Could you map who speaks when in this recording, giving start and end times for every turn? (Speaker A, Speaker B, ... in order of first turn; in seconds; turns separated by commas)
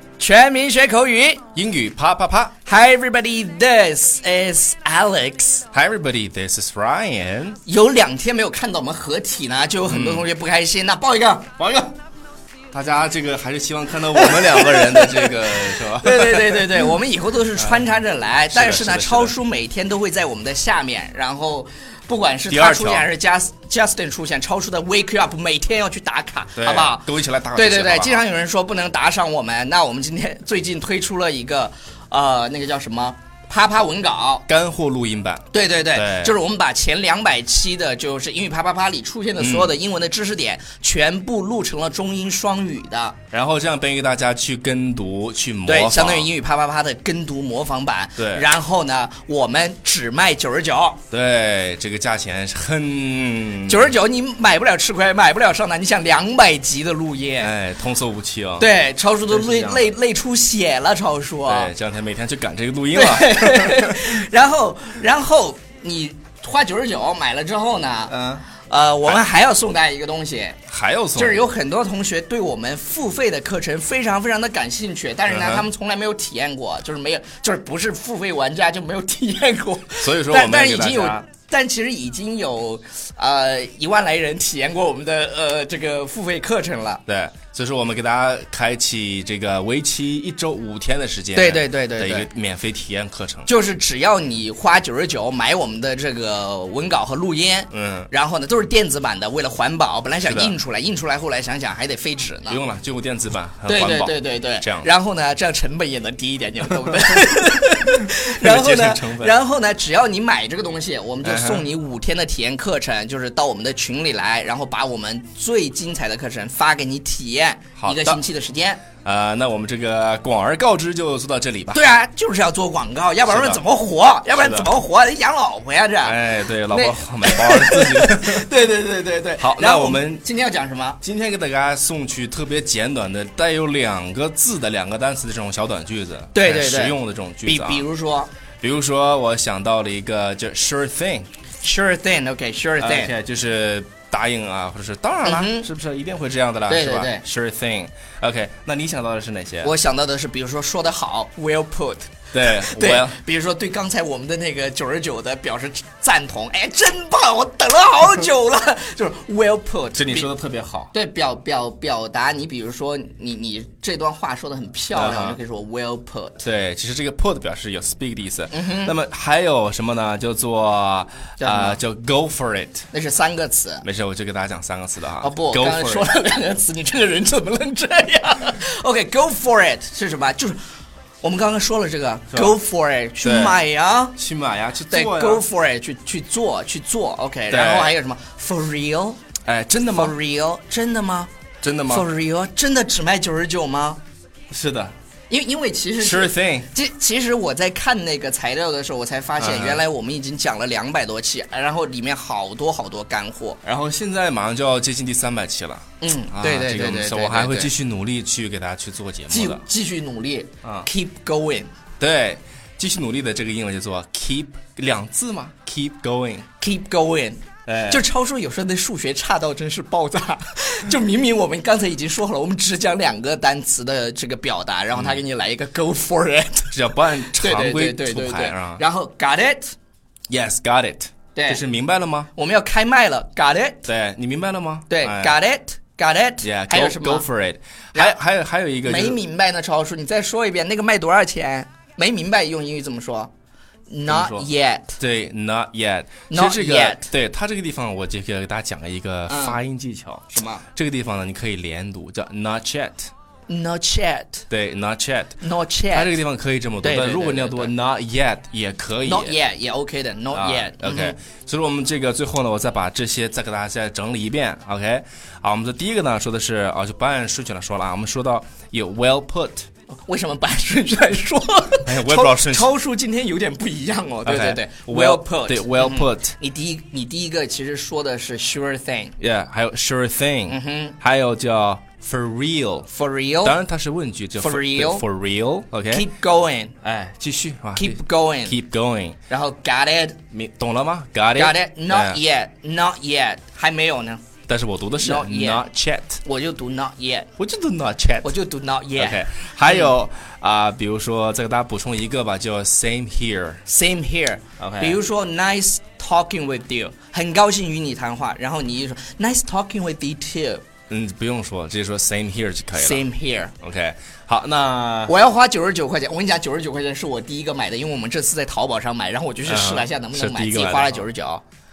Speaker A: 0.2-1.4, Speaker B: 1.5-2.5, Speaker A: 2.6-5.7, Speaker B: 5.7-7.6, Speaker A: 7.6-11.6, Speaker B: 9.9-10.3, Speaker B: 11.6-11.9, Speaker B: 12.7-16.9, Speaker A: 14.2-34.4, Speaker B: 17.6-17.9, Speaker B: 18.5-19.4, Speaker B: 22.5-23.1, Speaker B: 26.6-28.2, Speaker B: 34.5-36.3, Speaker A: 35.5-43.2, Speaker B: 39.4-39.7, Speaker B: 43.3-46.3, Speaker A: 45.7-51.0, Speaker B: 48.2-48.5, Speaker B: 51.1-53.9, Speaker A: 53.7-57.5, Speaker B: 57.4-58.7, Speaker A: 58.6-61.7, Speaker B: 59.3-59.9, Speaker B: 61.4-64.1, Speaker A: 62.9-70.6, Speaker B: 68.1-68.4, Speaker B: 70.7-71.4, Speaker A: 71.1-87.0, Speaker B: 75.3-75.7, Speaker B: 80.0-81.2, Speaker B: 87.1-93.5, Speaker A: 91.3-92.3, Speaker A: 93.5-102.6, Speaker B: 97.7-98.1, Speaker B: 100.2-100.5, Speaker B: 102.5-104.9, Speaker A: 103.7-118.8, Speaker B: 108.0-109.4, Speaker B: 111.2-111.7, Speaker B: 117.8-118.2, Speaker B: 119.0-121.9, Speaker A: 121.7-131.0, Speaker B: 123.2-123.6, Speaker B: 124.3-124.7, Speaker B: 126.0-128.5, Speaker B: 129.4-130.2, Speaker B: 131.0-137.8, Speaker A: 136.3-138.3, Speaker B: 138.6-141.3, Speaker A: 141.6-143.1, Speaker B: 142.8-149.7, Speaker A: 145.2-145.7, Speaker A: 146.7-147.2, Speaker A: 149.6-160.3, Speaker B: 152.3-153.2, Speaker B: 159.9-160.9, Speaker A: 160.9-166.4, Speaker B: 164.9-165.4, Speaker B: 166.4-172.8, Speaker A: 168.5-168.9, Speaker A: 171.4-171.8, Speaker A: 172.9-173.8, Speaker B: 173.8-176.1, Speaker A: 175.2-180.6, Speaker A: 181.2-184.2, Speaker B: 182.3-182.6, Speaker B: 183.2-183.6, Speaker B: 184.1-185.4, Speaker A: 184.9-189.2, Speaker B: 187.5-187.9, Speaker B: 189.5-190.1, Speaker A: 189.8-191.3, Speaker B: 191.6-192.1, Speaker A: 191.9-194.0, Speaker B: 194.5-194.9, Speaker A: 195.3-203.6, Speaker B: 196.0-196.7, Speaker B: 199.4-199.8, Speaker B: 203.6-209.6, Speaker A: 206.0-207.7, Speaker A: 209.3-211.7, Speaker B: 210.6-210.9, Speaker B: 212.0-216.4, Speaker A: 216.6-229.7, Speaker B: 217.7-218.0, Speaker B: 224.9-225.2, Speaker B: 226.7-228.8, Speaker B: 230.3-232.3, Speaker A: 231.3-231.6, Speaker A: 232.3-233.9, Speaker B: 233.8-235.4, Speaker A: 234.9-237.3, Speaker B: 236.4-239.2, Speaker A: 238.8-243.3, Speaker A: 243.9-245.0, Speaker B: 244.1-244.5, Speaker B: 245.0-253.1, Speaker A: 246.3-247.1, Speaker A: 249.3-249.6, Speaker A: 250.3-250.6, Speaker A: 253.5-254.4, Speaker B: 254.5-255.4, Speaker A: 255.4-256.2, Speaker B: 255.9-259.4, Speaker A: 256.8-257.7, Speaker A: 259.0-261.1, Speaker B: 260.3-269.7, Speaker A: 269.9-279.1, Speaker B: 271.8-272.7, Speaker B: 274.2-276.4, Speaker B: 279.2-282.9, Speaker A: 280.5-281.0, Speaker A: 282.9-283.6, Speaker B: 283.4-286.1, Speaker A: 284.4-285.0, Speaker A: 285.9-286.8, Speaker B: 286.8-289.2, Speaker A: 287.7-288.6, Speaker A: 289.3-290.2, Speaker B: 290.3-292.2, Speaker A: 291.4-294.2, Speaker B: 294.5-296.2, Speaker A: 295.0-295.6, Speaker A: 296.2-297.3, Speaker B: 297.4-298.3, Speaker A: 298.2-299.9, Speaker B: 298.9-303.6, Speaker A: 303.6-310.6, Speaker B: 304.6-305.0, Speaker B: 310.9-313.1, Speaker A: 312.7-313.5, Speaker B: 313.6-315.1, Speaker A: 315.1-321.4, Speaker B: 319.4-321.1